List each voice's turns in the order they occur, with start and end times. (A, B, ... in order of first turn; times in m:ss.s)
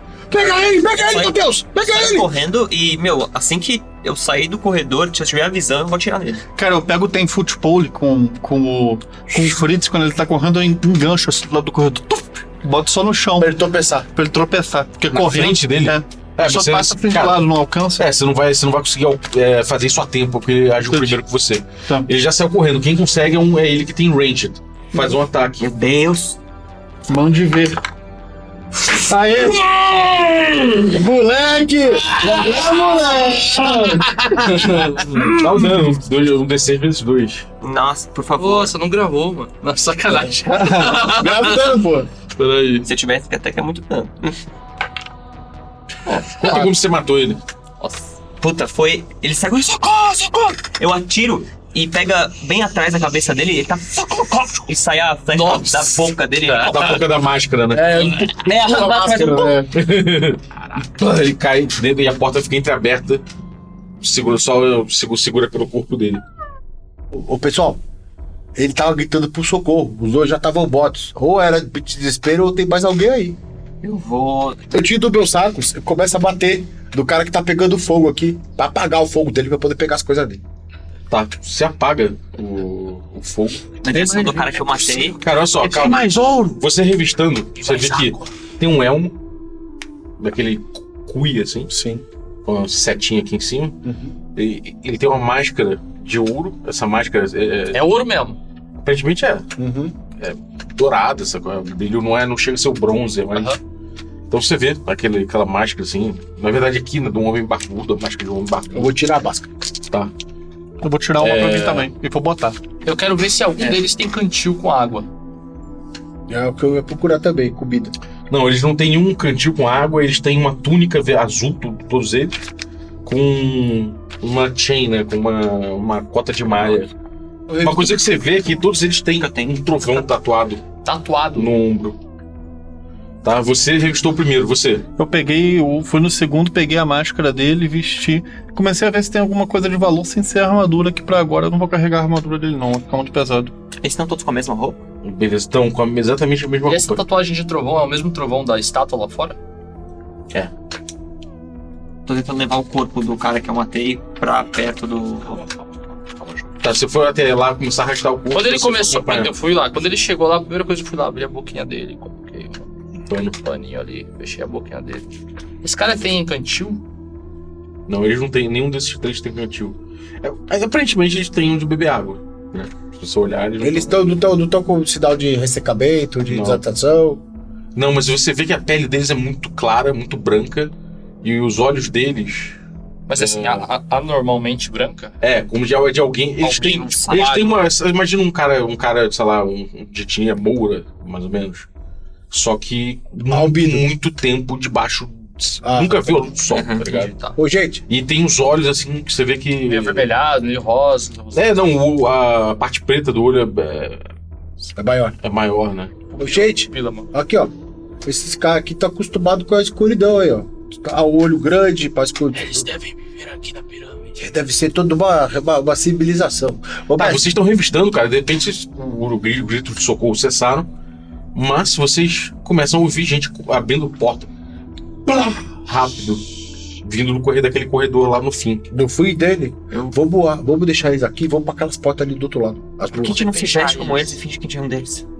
0:00.3-0:02.3 A
0:00.3-0:06.4 B
0:06.6-0:13.6 C
0:13.4-0:14.1 A
0:14.1-0:18.0 C
0:15.1-0:17.4 D
0:18.0-0:25.7 D
0:20.9-0:21.2 C
0:25.6-0:26.4 B
0:27.1-0:27.8 C
0:28.9-0:29.7 C
0:30.8-0:34.3 A
0:34.2-0:35.4 E
0:34.4-0:37.4 D
0:37.6-0:38.7 B
0:38.4-0:41.8 E
0:40.8-0:42.1 A
0:42.4-0:42.9 E
0:42.8-0:44.4 B
0:46.1-0:46.7 E
0:46.2-0:47.4 D
0:47.8-0:48.1 E
0:48.4-0:56.9 B
0:55.3-0:57.0 E
0:56.7-0:58.2 D
0:57.7-0:59.7 A
0:58.2-0:59.6 B
0:59.7-1:03.2 D
1:04.0-1:06.2 D
1:07.1-1:07.8 A
1:08.6-1:13.4 A
1:13.8-1:14.7 B
1:14.7-1:20.4 A
1:21.1-1:23.7 D
1:23.8-1:25.2 B
1:25.2-1:29.1 D
1:25.7-1:26.0 E
1:27.6-1:28.2 F
1:30.2-1:31.7 D
1:31.7-1:32.0 A
1:32.4-1:33.8 D
1:33.8-1:34.1 A
1:34.3-1:37.9 D
1:37.7-1:38.4 E
1:38.8-1:39.5 D
1:39.6-1:40.0 A
1:40.2-1:43.6 D
1:43.3-1:43.6 E
1:44.3-1:48.9 D
1:48.7-1:49.5 A
1:50.8-1:52.6 C
1:51.2-1:51.9 D
1:52.8-1:55.1 E
1:56.3-1:57.9 A
1:58.3-2:02.4 D
2:03.0-2:06.9 D
2:07.5-2:08.0 A
2:07.6-2:10.6 D
2:09.2-2:10.0 B
2:10.8-2:11.5 E
2:11.3-2:12.0 D
2:13.2-2:14.9 D
2:15.0-2:23.5 C
2:23.8-2:24.8 B
2:25.0-2:27.0 D
2:26.7-2:29.4 E
2:32.0-2:35.5 B
2:36.2-2:36.4 B
2:36.6-2:39.3 D
2:38.3-2:42.7 E
2:43.1-2:43.4 D
2:43.3-2:46.8 E
2:47.9-2:54.2 D
2:53.6-2:57.2 A
2:56.3-2:56.6 D
2:57.7-3:02.6 D
3:03.1-3:05.1 E
3:03.1-3:03.7 D
3:05.2-3:11.7 D
3:06.4-3:07.7 E
3:06.6-3:07.4 B
3:12.3-3:17.1 D
3:13.3-3:13.9 A
3:15.6-3:16.2 A
3:16.5-3:16.9 B
3:16.8-3:17.4 E
3:17.4-3:17.8 A
3:17.9-3:20.1 D
3:19.7-3:21.7 E
3:21.3-3:24.1 D
3:24.8-3:25.1 A
3:25.2-3:26.0 D
3:26.1-3:27.1 E
3:26.2-3:27.5 A
3:28.0-3:32.7 A
3:32.3-3:34.2 F
3:34.2-3:37.2 A
3:37.0-3:40.7 D
3:41.3-3:44.3 D
3:45.2-3:46.2 D
3:46.8-3:48.7 D
3:48.7-3:53.8 A
3:52.9-3:55.0 B
3:53.3-3:54.1 E